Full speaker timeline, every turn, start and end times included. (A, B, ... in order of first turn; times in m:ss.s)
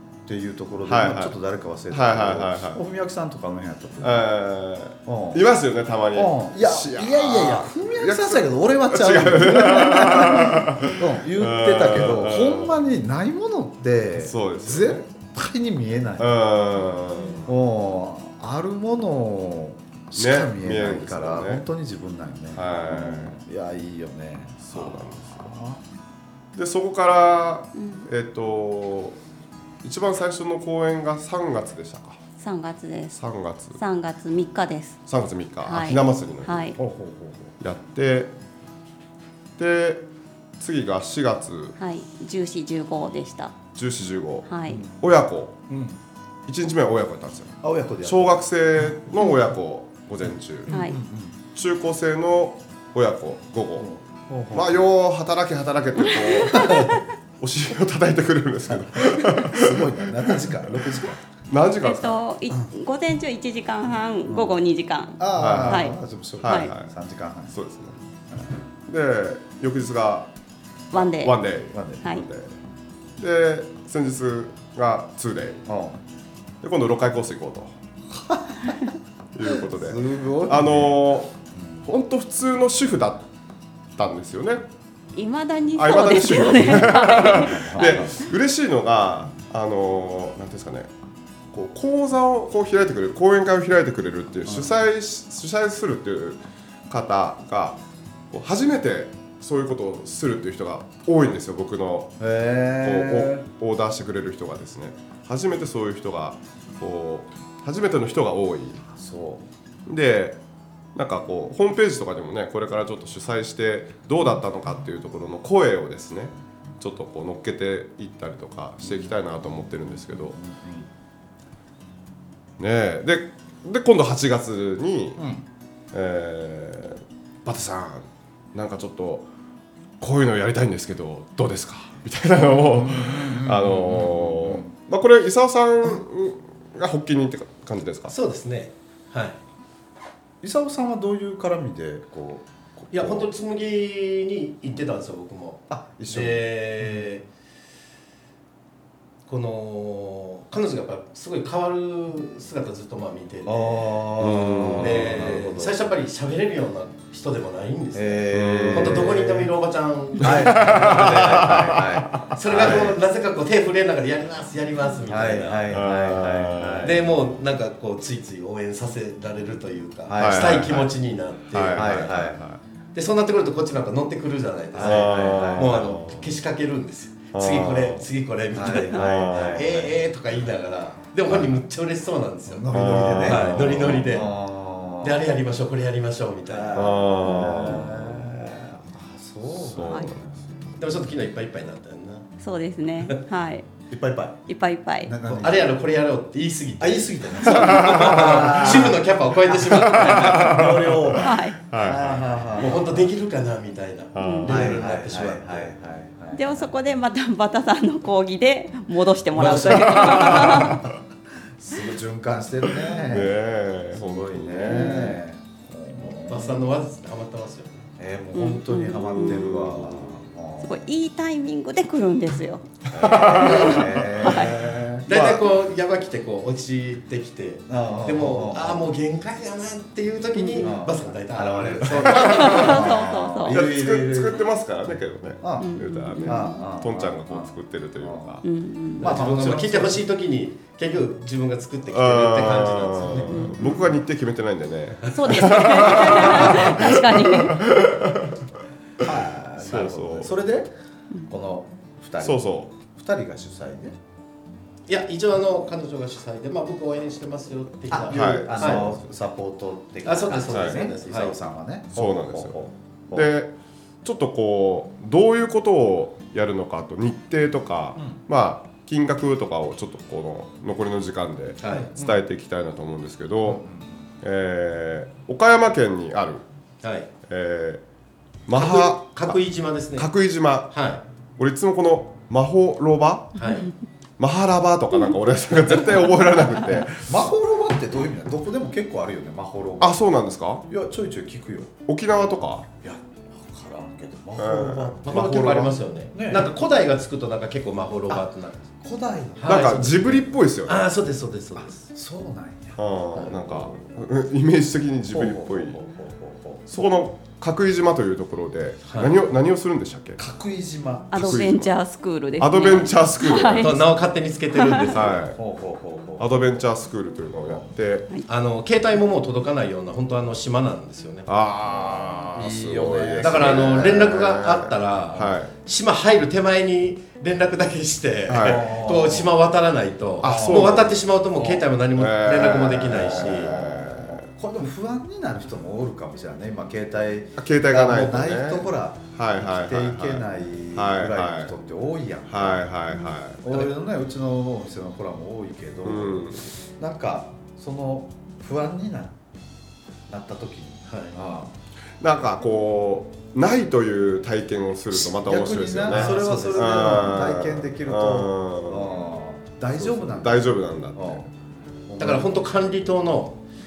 0:00.2-0:04.2 A
0:00.8-0:01.3 B
0:01.9-0:02.8 B
0:04.0-0:12.8 B
0:05.0-0:05.4 A
0:06.1-0:16.3 A
0:14.2-0:15.0 B
0:16.2-0:17.5 B
0:17.4-0:25.8 A
0:20.2-0:21.6 B
0:22.6-0:23.4 B
0:24.7-0:25.5 B
0:26.5-0:29.2 B
0:27.7-0:28.1 C
0:29.8-0:32.2 B
0:32.4-0:33.2 C
0:33.1-0:33.8 B
0:33.7-0:35.0 C
0:35.1-0:36.8 B
0:35.6-0:36.8 C
0:36.8-0:37.5 A
0:37.6-0:38.3 B
0:39.6-0:40.0 B
0:40.6-0:41.8 B
0:41.8-0:43.6 C
0:43.7-0:45.6 B
0:44.5-0:44.8 C
0:44.7-0:45.0 A
0:45.7-0:46.0 A
0:46.4-0:50.7 B
0:47.6-0:48.4 A
0:50.7-0:51.4 A
0:50.7-0:51.0 C
0:51.5-0:53.9 B
0:53.8-0:54.8 A
0:54.5-1:02.2 B
0:56.0-0:57.0 C
0:56.6-0:56.9 A
0:58.7-1:01.2 A
1:01.8-1:06.7 C
1:04.2-1:04.5 A
1:05.2-1:07.6 A
1:05.3-1:06.9 B
1:07.5-1:08.0 B
1:08.8-1:10.3 B
1:10.9-1:11.4 C
1:10.9-1:12.5 B
1:11.7-1:12.1 A
1:13.2-1:15.6 B
1:15.6-1:16.0 A
1:16.6-1:17.7 B
1:18.1-1:18.8 A
1:19.3-1:21.3 B
1:19.6-1:21.8 A
1:21.8-1:23.3 B
1:24.0-1:24.6 B
1:25.1-1:28.2 C
1:25.8-1:30.9 B
1:26.8-1:28.1 A
1:31.5-1:42.1 B
1:34.5-1:34.8 A
1:42.2-1:43.4 A
1:42.8-1:48.8 B
1:48.9-1:49.4 A
1:49.8-1:50.4 B
1:50.9-2:00.4 B
1:58.8-2:00.9 A
2:02.6-2:05.2 B
2:05.2-2:05.4 A
2:05.9-2:09.3 B
2:10.0-2:18.1 B
2:12.4-2:14.7 A
2:18.1-2:19.4 D
2:20.4-2:23.3 A
2:22.9-2:27.2 D
2:25.7-2:27.1 A
2:29.3-2:34.0 D
2:33.4-2:35.8 A
2:34.2-2:35.3 B
2:34.6-2:41.8 D
2:37.9-2:39.5 A
2:38.3-2:39.1 B
2:40.2-2:43.0 A
2:40.2-2:42.9 B
2:42.3-2:45.8 D
2:45.1-2:47.1 A
2:45.7-2:47.0 B
2:46.8-2:52.2 D
2:50.1-2:50.7 A
2:50.2-2:50.9 B
2:51.5-2:52.6 B
2:51.7-2:52.4 A
2:52.9-3:04.3 D
2:54.7-2:55.8 A
2:54.8-2:56.3 B
2:57.3-2:58.0 B
2:58.5-2:59.9 A
2:58.9-2:59.8 B
3:02.5-3:05.2 A
3:02.7-3:04.1 B
3:05.0-3:07.9 D
3:06.5-3:10.2 A
3:06.7-3:08.3 B
3:09.5-3:10.4 B
3:09.8-3:10.1 C
3:10.8-3:12.3 D
3:12.4-3:13.6 C
3:13.9-3:14.4 A
3:14.5-3:15.1 C
3:15.0-3:15.8 A
3:15.3-3:21.0 D
3:16.8-3:23.1 A
3:17.6-3:18.1 B
3:19.7-3:22.2 B
3:21.2-3:21.6 C
3:22.6-3:25.7 D
3:24.1-3:24.8 B
3:24.2-3:24.6 C
3:24.4-3:26.8 A
3:26.3-3:30.8 C
3:29.3-3:31.0 A
3:29.4-3:30.4 D
3:29.9-3:30.8 B
3:31.6-3:33.4 A
3:32.9-3:35.2 B
3:33.9-3:36.7 A
3:36.2-3:37.8 D
3:38.0-3:40.8 A
3:38.3-3:39.8 C
3:39.2-3:40.1 B
3:40.6-3:42.6 C
3:42.9-3:45.4 B
3:42.9-3:45.1 A
3:43.4-3:44.5 C
3:45.0-3:52.8 D
3:47.7-3:48.8 A
3:50.4-3:50.6 C
3:50.6-3:54.4 A
3:51.8-3:52.9 B
3:52.2-3:53.6 C
3:53.4-3:58.4 B
3:55.4-3:58.4 A
3:55.6-3:56.6 C
3:58.4-3:59.2 C
3:59.0-4:00.0 A
3:59.0-4:03.8 D
4:01.9-4:08.4 B
4:03.3-4:03.8 C
4:05.0-4:06.0 D
4:05.1-4:07.6 C
4:09.0-4:10.7 A
4:09.0-4:10.3 B
4:11.3-4:14.0 A
4:12.2-4:12.7 B
4:14.9-4:18.9 D
4:17.9-4:23.3 A
4:18.1-4:19.0 B
4:20.0-4:21.4 D
4:20.5-4:20.9 B
4:21.9-4:22.6 B
4:23.1-4:33.6 B
4:31.6-4:31.9 D
4:31.7-4:32.2 A
4:33.4-4:34.1 A
4:34.2-4:36.4 B
4:36.8-4:37.1 D
4:37.2-4:37.8 B
4:38.5-4:39.4 B
4:38.5-4:40.1 D
4:40.0-4:40.8 B
4:40.6-4:41.0 D
4:41.4-4:43.4 B
4:43.4-4:43.7 D
4:44.2-4:47.1 B
4:46.9-4:50.0 A
4:49.8-4:50.6 B
4:50.7-4:51.7 A
4:51.9-4:52.7 B
4:52.8-4:56.5 A
4:54.4-4:55.8 B
4:55.0-4:58.7 D
4:58.8-4:59.8 A
4:59.4-5:01.9 D
4:59.5-5:00.8 B
5:01.9-5:03.8 A
5:02.8-5:05.8 B
5:05.1-5:06.7 A
5:06.7-5:10.2 B
5:08.8-5:09.2 D
5:10.2-5:11.5 A
5:11.1-5:13.8 C
5:11.1-5:11.7 B
5:12.4-5:13.8 B
5:13.5-5:15.3 D
5:14.5-5:14.9 C
5:14.9-5:15.4 B
5:15.3-5:16.4 A
5:16.2-5:18.1 B
5:18.3-5:21.3 D
5:21.3-5:25.5 B
5:21.7-5:24.1 A
5:23.2-5:33.5 D
5:28.3-5:28.6 B
5:28.4-5:29.3 A
5:30.2-5:31.0 B
5:30.2-5:30.8 A
5:32.0-5:34.2 B
5:32.4-5:42.7 A
5:37.4-5:41.5 B
5:42.3-5:43.6 B
5:43.4-5:49.2 A
5:45.8-5:46.4 B
5:50.1-5:51.5 A
5:50.9-5:51.1 D
5:52.0-5:58.9 B
5:54.9-6:01.3 A
5:55.9-5:57.2 D
5:59.8-6:01.3 B
6:01.9-6:02.4 A
6:02.0-6:03.4 D